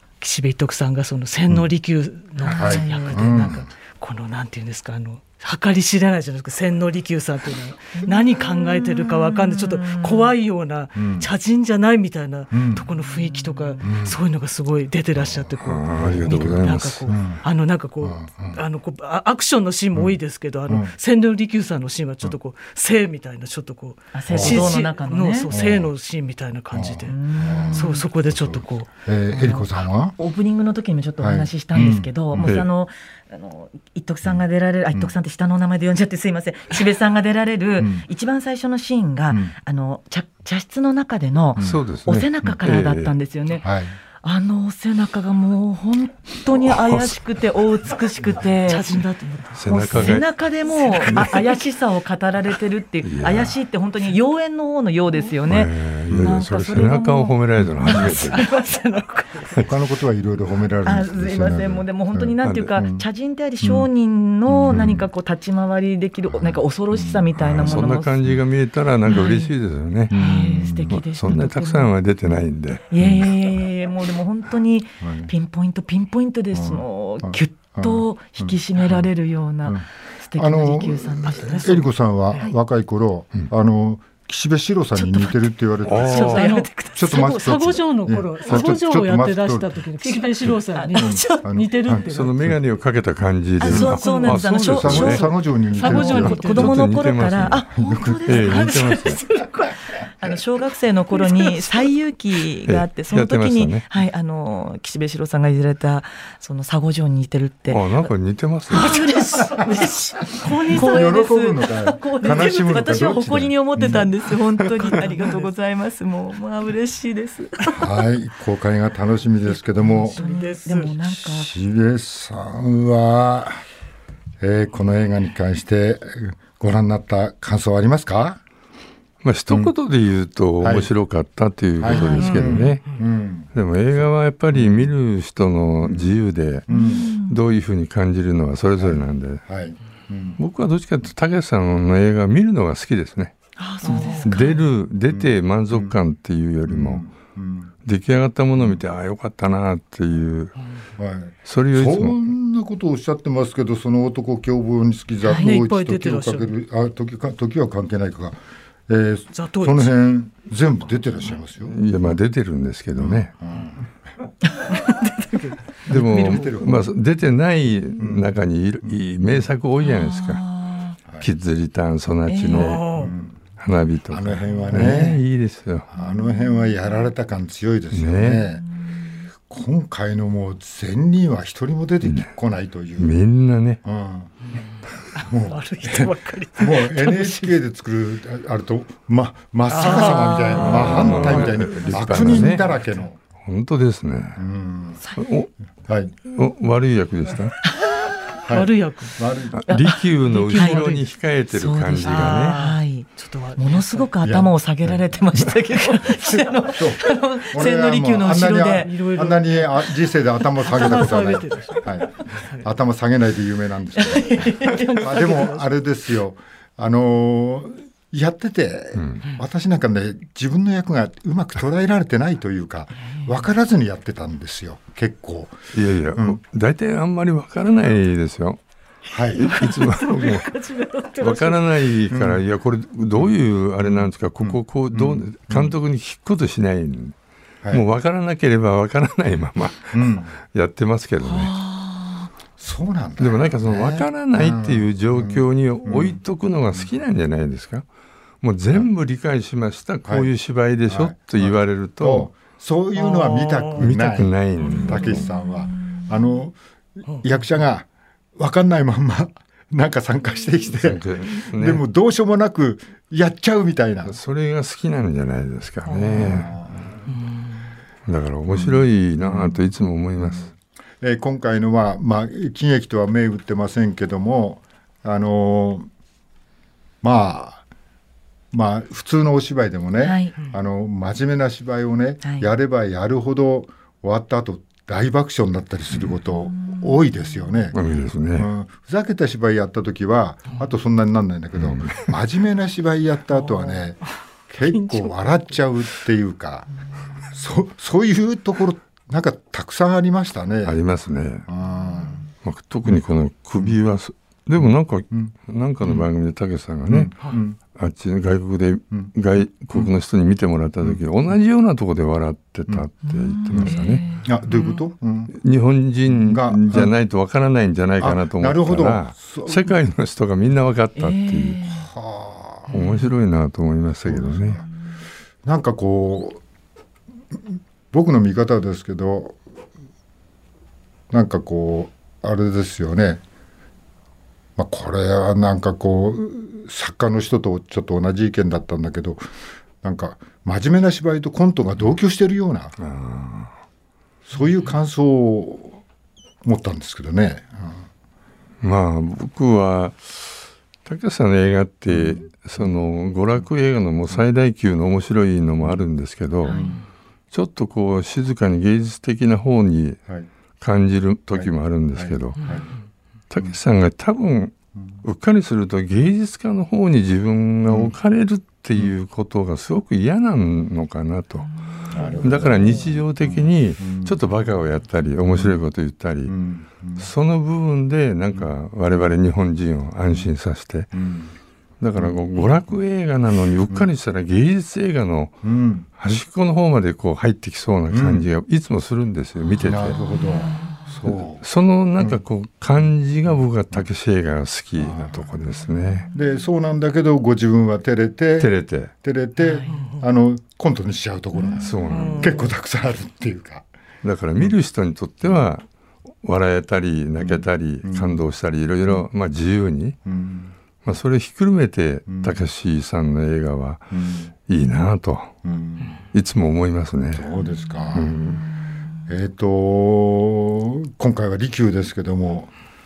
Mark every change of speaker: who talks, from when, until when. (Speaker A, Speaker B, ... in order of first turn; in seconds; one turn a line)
Speaker A: 0.2-28.9
Speaker B: 2.4-3.5
Speaker C: 2.5-3.7
Speaker B: 8.0-10.3
Speaker C: 11.0-11.3
Speaker C: 12.5-12.9
Speaker B: 13.0-13.8
Speaker C: 13.8-14.2
Speaker D: 15.6-17.1
Speaker C: 16.0-17.4
Speaker C: 18.0-18.6
Speaker C: 19.9-20.9
Speaker B: 24.1-25.5
Speaker C: 24.3-24.7
Speaker C: 25.5-25.9
Speaker C: 26.7-30.1
Speaker B: 27.1-28.1
Speaker B: 29.3-43.7
Speaker C: 31.2-32.6
Speaker C: 37.8-38.1
Speaker C: 39.3-39.5
Speaker C: 41.6-41.8
Speaker D: 41.6-43.1
Speaker C: 43.6-44.0
Speaker B: 44.2-49.0
Speaker D: 46.7-47.1
Speaker A: 48.7-51.6
Speaker D: 49.5-50.3
Speaker B: 49.7-58.8
Speaker D: 53.0-53.5
Speaker D: 55.5-58.4
Speaker C: 56.1-56.4
Speaker A: 58.0-59.6
Speaker C: 59.6-63.1
Speaker B: 60.9-68.2
Speaker D: 62.4-62.8
Speaker C: 63.6-63.9
Speaker C: 64.5-65.1
Speaker C: 66.3-68.4
Speaker D: 67.6-70.2
Speaker B: 69.1-69.5
Speaker C: 70.1-71.0
Speaker B: 70.1-71.9
Speaker D: 70.9-72.9
Speaker B: 72.9-81.8
Speaker C: 73.0-73.3
Speaker C: 75.0-75.3
Speaker C: 76.5-79.0
Speaker C: 80.3-89.8
Speaker A: 81.3-82.5
Speaker B: 85.0-87.4
Speaker D: 85.9-86.6
Speaker A: 86.2-92.5
Speaker B: 90.0-91.4
Speaker C: 91.0-92.2
Speaker D: 92.1-95.3
Speaker B: 93.6-99.2
Speaker C: 93.7-94.0
Speaker A: 93.8-96.8
Speaker C: 94.6-96.7
Speaker D: 95.9-97.6
Speaker C: 97.7-98.4
Speaker D: 98.3-99.2
Speaker A: 98.4-99.8
Speaker B: 100.2-107.9
Speaker A: 101.1-101.9
Speaker D: 102.7-103.8
Speaker D: 107.7-109.0
Speaker B: 108.7-117.9
Speaker A: 108.8-111.1
Speaker C: 110.4-114.1
Speaker A: 115.0-115.3
Speaker C: 117.8-120.2
Speaker B: 119.8-121.5
Speaker A: 120.1-120.9
Speaker C: 121.1-123.6
Speaker C: 124.4-128.4
Speaker D: 129.2-132.8
Speaker C: 130.6-130.9
Speaker C: 131.8-133.5
Speaker A: 131.9-133.0
Speaker D: 133.5-139.4
Speaker C: 134.5-134.9
Speaker C: 135.8-136.2
Speaker C: 136.7-137.1
Speaker B: 136.7-137.4
Speaker C: 138.8-140.4
Speaker D: 140.4-143.3
Speaker B: 143.6-144.6
Speaker A: 143.8-144.4
Speaker D: 143.9-147.1
Speaker C: 145.1-146.0
Speaker C: 146.7-147.7
Speaker D: 147.8-150.6
Speaker C: 151.0-162.1
Speaker D: 151.5-152.2
Speaker B: 155.2-155.5
Speaker A: 155.3-156.5
Speaker A: 159.3-159.9
Speaker D: 161.6-163.3
Speaker C: 162.9-163.9
Speaker A: 164.7-166.6
Speaker C: 165.9-166.8
Speaker D: 165.9-170.5
Speaker C: 168.0-168.3
Speaker B: 169.8-171.0
Speaker D: 171.2-175.9
Speaker B: 172.3-172.8
Speaker A: 172.5-173.2
Speaker C: 172.9-173.4
Speaker C: 174.1-175.2
Speaker C: 175.9-178.7
Speaker B: 176.0-176.9
Speaker D: 177.9-178.5
Speaker C: 179.5-183.2
Speaker D: 182.0-182.3
Speaker D: 183.0-183.8
Speaker C: 183.8-184.4
Speaker A: 185.2-187.6
Speaker C: 185.2-193.2
Speaker A: 189.7-191.6
Speaker D: 190.5-192.8
Speaker D: 193.4-194.4
Speaker C: 194.4-195.0
Speaker D: 195.2-195.5
Speaker C: 195.9-196.1
Speaker D: 196.2-197.6
Speaker B: 197.7-198.4
Speaker C: 198.5-199.6
Speaker A: 198.5-199.2
Speaker D: 199.6-202.6
Speaker B: 199.7-200.9
Speaker A: 200.3-201.0
Speaker B: 201.5-208.9
Speaker A: 202.1-204.1
Speaker C: 204.2-205.0
Speaker C: 206.6-225.6
Speaker A: 208.8-209.8
Speaker A: 210.6-212.7
Speaker B: 214.0-215.3
Speaker A: 214.6-215.7
Speaker D: 219.0-219.2
Speaker B: 223.1-223.3
Speaker D: 225.7-228.6
Speaker C: 226.2-226.4
Speaker C: 229.1-229.6
Speaker D: 229.3-230.5
Speaker A: 229.5-231.6
Speaker D: 231.2-237.2
Speaker C: 232.1-232.4
Speaker C: 234.4-235.8
Speaker D: 237.7-241.6
Speaker C: 239.9-240.3
Speaker B: 241.3-242.3
Speaker C: 242.6-246.2
Speaker D: 243.2-247.8
Speaker D: 248.4-252.3
Speaker C: 250.1-250.3
Speaker C: 250.9-256.6
Speaker A: 252.9-253.8
Speaker D: 253.8-255.3
Speaker B: 254.7-256.1
Speaker C: 257.1-264.2
Speaker D: 260.7-261.8
Speaker D: 264.1-266.5
Speaker A: 265.9-266.5
Speaker C: 266.1-267.0
Speaker A: 267.1-267.7
Speaker D: 268.1-270.5
Speaker C: 268.5-269.6
Speaker C: 270.2-270.5
Speaker C: 271.0-275.9
Speaker C: 277.0-277.6
Speaker C: 278.5-296.7
Speaker B: 280.0-280.3
Speaker B: 282.2-282.5
Speaker B: 286.5-287.5
Speaker D: 287.7-288.5
Speaker D: 291.6-292.0
Speaker A: 293.5-293.8
Speaker A: 294.6-295.5
Speaker C: 297.3-300.8
Speaker D: 300.6-301.5
Speaker C: 301.5-302.2
Speaker D: 302.4-307.1
Speaker C: 306.9-307.6
Speaker D: 307.7-314.0
Speaker B: 313.1-314.8
Speaker C: 313.5-315.4
Speaker D: 315.4-321.6
Speaker C: 316.1-316.9
Speaker C: 318.0-319.8
Speaker B: 321.0-321.9
Speaker C: 321.7-322.7
Speaker D: 322.7-324.6
Speaker C: 324.1-324.6
Speaker C: 325.4-326.4
Speaker C: 327.4-329.4
Speaker C: 331.1-333.2
Speaker C: 334.6-339.3
Speaker C: 339.8-342.8
Speaker D: 342.8-343.5
Speaker C: 344.3-345.8
Speaker C: 346.4-347.9
Speaker D: 348.6-356.6
Speaker C: 351.9-352.2
Speaker B: 356.5-356.8
Speaker C: 356.5-356.8
Speaker D: 357.3-360.0
Speaker D: 360.6-362.5
Speaker C: 361.3-362.7
Speaker A: 362.4-362.7
Speaker D: 363.3-371.5
Speaker C: 367.7-367.9
Speaker C: 371.9-374.2
Speaker D: 372.2-376.4
Speaker C: 375.3-375.6
Speaker C: 376.3-377.1
Speaker D: 377.0-380.9
Speaker C: 380.9-381.3
Speaker D: 381.8-385.4
Speaker C: 385.4-385.9
Speaker D: 386.0-390.0
Speaker C: 387.9-388.3
Speaker C: 389.6-391.4
Speaker B: 389.8-390.9
Speaker D: 391.4-396.1
Speaker C: 394.8-395.2
Speaker C: 396.1-398.5
Speaker D: 398.4-398.9
Speaker C: 399.0-403.7
Speaker B: 399.4-399.9
Speaker A: 399.7-400.0
Speaker D: 401.6-402.4
Speaker A: 401.9-402.5
Speaker D: 404.0-405.6
Speaker D: 406.2-410.0
Speaker C: 407.2-408.2
Speaker C: 410.1-410.5
Speaker D: 410.8-415.4
Speaker C: 412.1-412.4
Speaker C: 413.9-414.3
Speaker C: 415.4-416.0
Speaker D: 416.1-417.3
Speaker C: 417.1-418.2
Speaker D: 417.9-418.4
Speaker C: 419.1-422.5